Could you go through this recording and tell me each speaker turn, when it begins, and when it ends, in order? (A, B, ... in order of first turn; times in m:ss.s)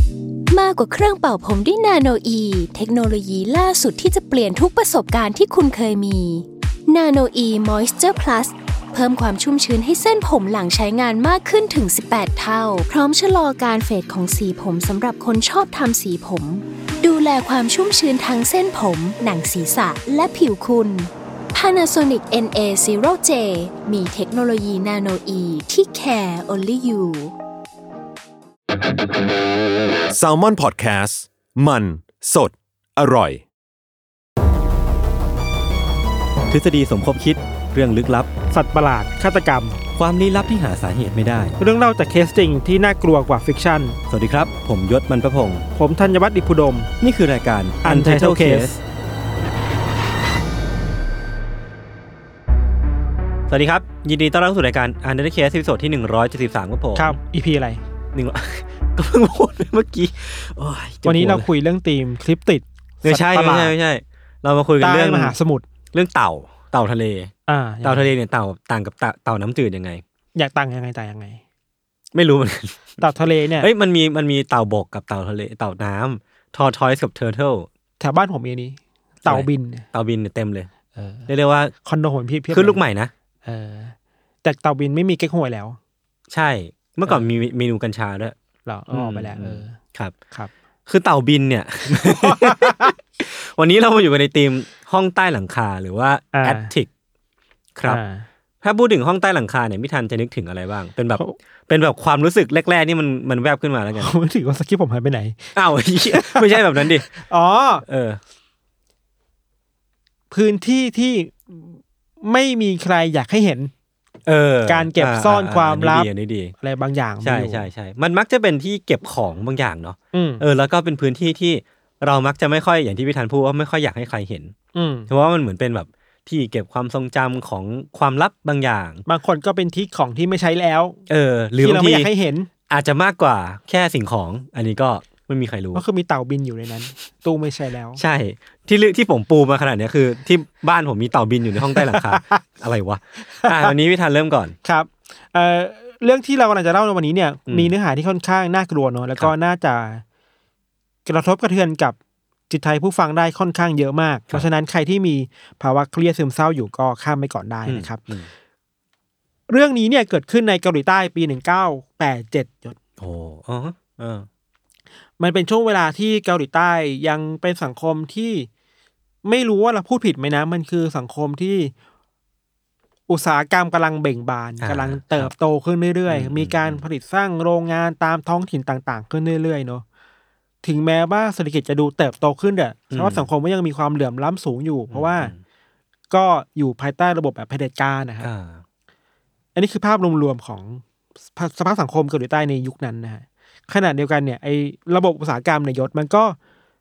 0:00.5-0:27.3 A
0:30.1-0:33.4 B
0:36.5-0:38.3 C
0:38.5-0:39.8 D
0:40.0-0:41.6 C
0:41.6-0:44.0 D
0:44.1-0:45.7 C
0:45.8-0:46.9 D
0:47.0-0:48.8 C
0:47.8-0:48.8 D
0:53.5-0:57.2 C
0:57.0-0:57.8 D
0:58.1-1:01.5 C
1:01.0-1:03.8 D
1:03.0-1:05.4 C
1:04.8-1:05.6 D
1:05.9-1:07.3 C
1:07.5-1:08.1 D
1:07.8-1:10.0 C
1:10.4-1:11.4 D
1:12.1-1:13.0 C
1:13.0-1:13.7 D
1:13.6-1:17.7 C
1:18.0-1:19.8 D
1:19.2-1:20.7 C
1:20.9-1:21.3 D
1:21.3-1:21.7 C
1:21.8-1:22.8 D
1:22.5-1:23.1 C
1:23.4-1:25.8 D
1:26.3-1:28.4 C
1:27.1-1:27.3 D
1:28.7-1:29.8 D
1:28.9-1:30.1 C
1:30.9-1:36.9 C
1:31.9-1:32.9 D
1:36.3-1:36.7 D
1:37.8-1:38.0 C
1:37.8-1:38.3 D
1:38.6-1:44.1 C
1:44.0-1:47.9 D
1:45.6-1:47.1 C
1:47.9-1:48.2 C
1:50.3-1:53.7 D
1:54.3-1:56.5 C
1:54.7-1:56.1 D
1:56.6-1:57.7 D
1:57.2-2:04.6 C
2:00.1-2:00.4 D
2:04.8-2:05.1 D
2:05.1-2:09.0 C
2:09.1-2:11.0 D
2:11.1-2:12.1 C
2:11.6-2:12.5 D
2:12.7-2:15.8 C
2:15.7-2:18.0 D
2:18.0-2:24.6 C
2:21.7-2:22.4 D
2:23.2-2:23.7 D
2:24.6-2:30.0 D
2:27.5-2:27.7 C
2:31.1-2:32.0 D
2:32.5-2:38.0 D
2:37.6-2:38.3 C
2:39.5-2:42.8 D
2:43.0-2:44.3 C
2:45.2-2:48.5 D
2:49.2-2:51.7 D
2:53.1-2:59.8 D
2:54.6-2:55.3 C
2:56.1-2:56.8 C
3:00.6-3:05.3 D
3:02.9-3:03.3 C
3:04.9-3:05.4 C
3:06.1-3:08.3 D
3:08.2-3:08.6 C
3:09.6-3:10.8 D
3:11.3-3:16.4 D